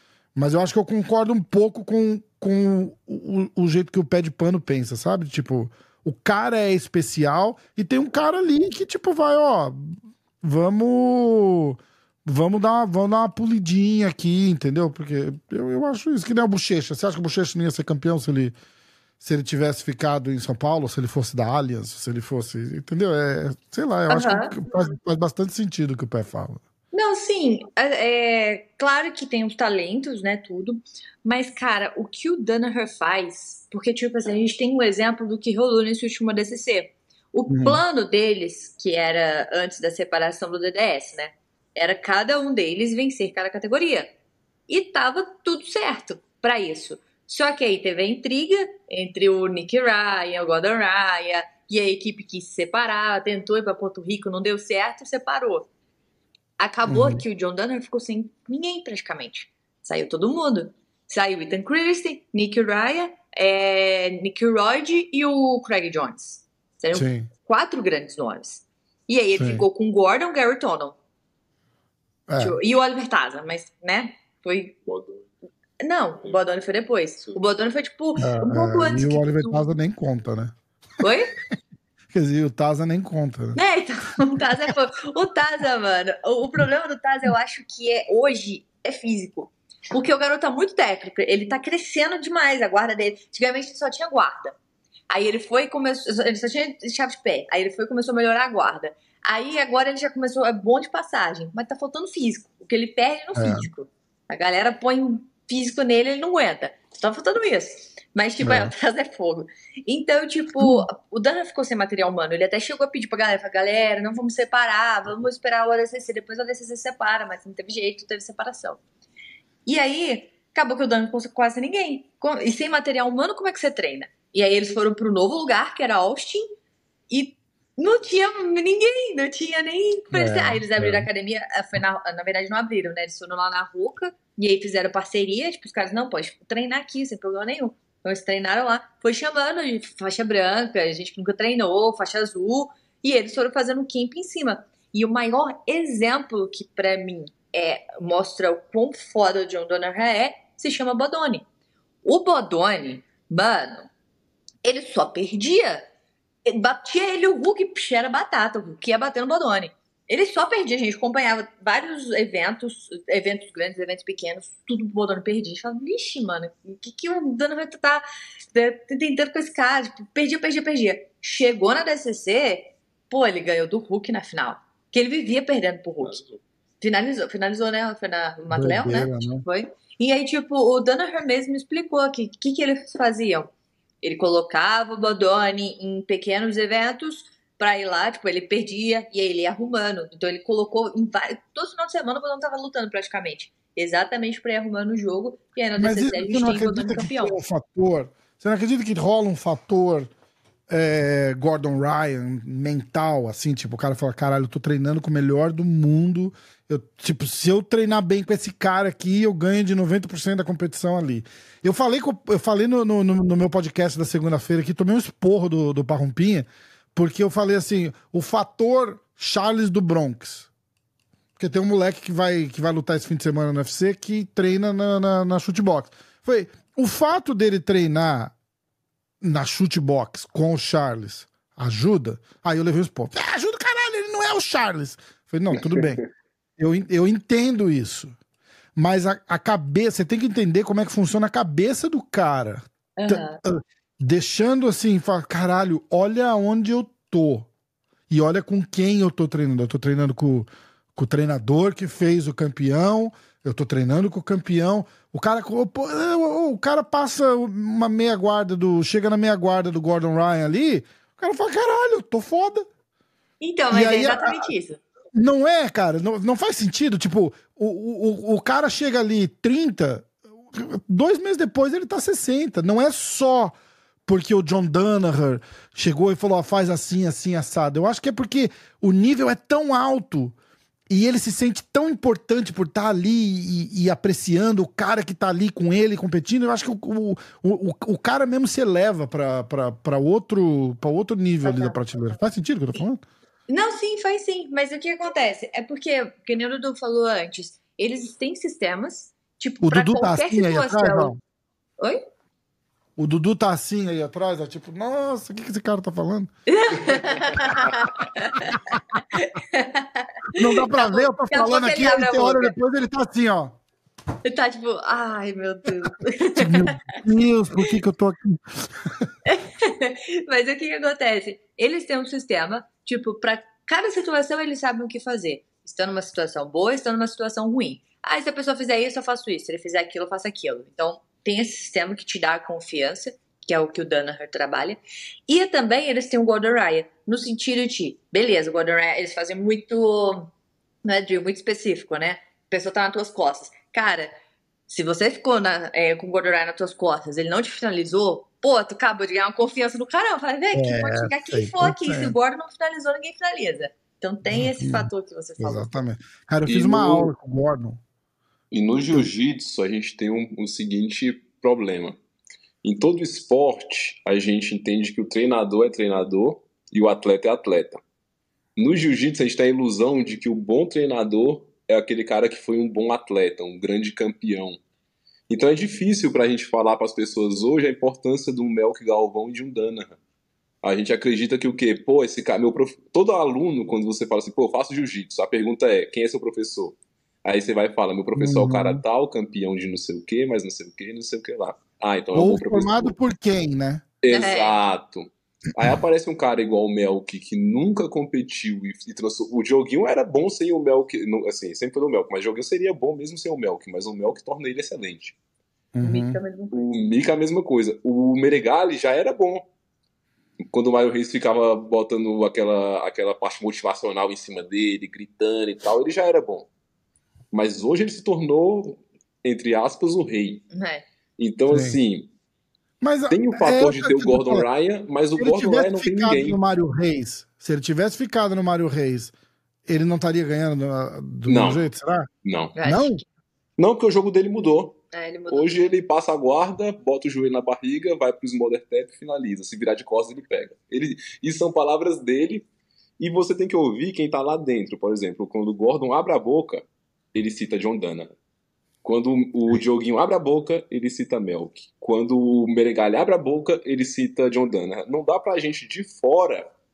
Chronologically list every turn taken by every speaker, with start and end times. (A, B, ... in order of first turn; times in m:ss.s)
0:00.4-0:18.6 A
0:19.2-0:26.6 A
0:24.1-0:24.6 B
0:26.9-0:44.1 B
0:37.5-0:37.8 A
0:44.7-0:55.7 B
0:56.6-1:11.0 B
0:56.9-0:57.2 A
1:06.9-1:07.3 A
1:09.4-1:09.7 A
1:12.3-1:12.6 A
1:12.4-1:14.8 B
1:14.9-1:15.2 C
1:15.8-1:19.6 B
1:18.2-1:20.5 A
1:21.0-1:21.3 B
1:22.1-1:23.6 A
1:23.6-1:34.6 B
1:35.1-1:58.8 B
1:43.4-1:43.7 A
1:48.4-1:48.7 A
1:50.6-1:50.9 A
1:59.7-2:06.5 B
2:07.1-2:31.4 B
2:10.1-2:11.1 A
2:32.0-2:33.9 B
2:34.6-2:35.8 B
2:36.5-2:56.2 B
2:56.8-3:03.5 B
2:58.5-2:59.4 A
3:04.0-3:17.4 B
3:15.8-3:20.1 A
3:20.7-3:40.5 A
3:41.4-3:48.3 A
3:49.2-3:56.0 A
3:56.6-3:58.1 A
3:58.8-4:07.5 A
4:03.0-4:03.4 B
4:08.1-4:22.7 A
4:23.4-4:24.8 B
4:23.7-4:24.5 A
4:25.1-4:33.5 A
4:34.1-4:40.4 A
4:40.9-4:53.0 A
4:51.4-4:51.8 B
4:53.5-5:01.1 B
4:59.6-5:01.2 A
5:03.0-5:06.3 A
5:06.5-5:12.5 B
5:08.5-5:08.8 A
5:10.4-5:13.6 A
5:14.2-5:16.9 B
5:16.4-5:19.1 A
5:19.3-5:40.3 B
5:40.8-5:44.1 B
5:44.7-5:55.8 B
5:50.5-5:52.2 A
5:54.2-5:57.8 A
5:56.5-5:57.1 C
5:58.5-6:02.0 C
6:02.6-6:07.8 C
6:08.6-6:14.6 C
6:15.3-6:20.0 C
6:20.6-6:32.9 C
6:28.2-6:28.8 A
6:32.1-6:33.8 A
6:34.0-6:45.2 C
6:34.1-6:34.6 B
6:45.8-6:46.2 A
6:45.8-6:46.6 B
6:46.5-6:49.5 C
6:50.5-6:56.5 C
6:57.3-7:00.5 C
7:00.5-7:00.8 B
7:01.2-7:02.1 C
7:01.5-7:01.8 A
7:02.8-7:04.5 A
7:03.1-7:06.4 C
7:05.2-7:09.1 A
7:09.7-7:12.1 A
7:11.3-7:11.7 C
7:12.2-7:12.6 C
7:12.6-7:13.0 B
7:12.6-7:13.0 A
7:13.6-7:22.5 C
7:14.9-7:15.6 B
7:23.0-7:28.1 C
7:28.8-7:36.5 C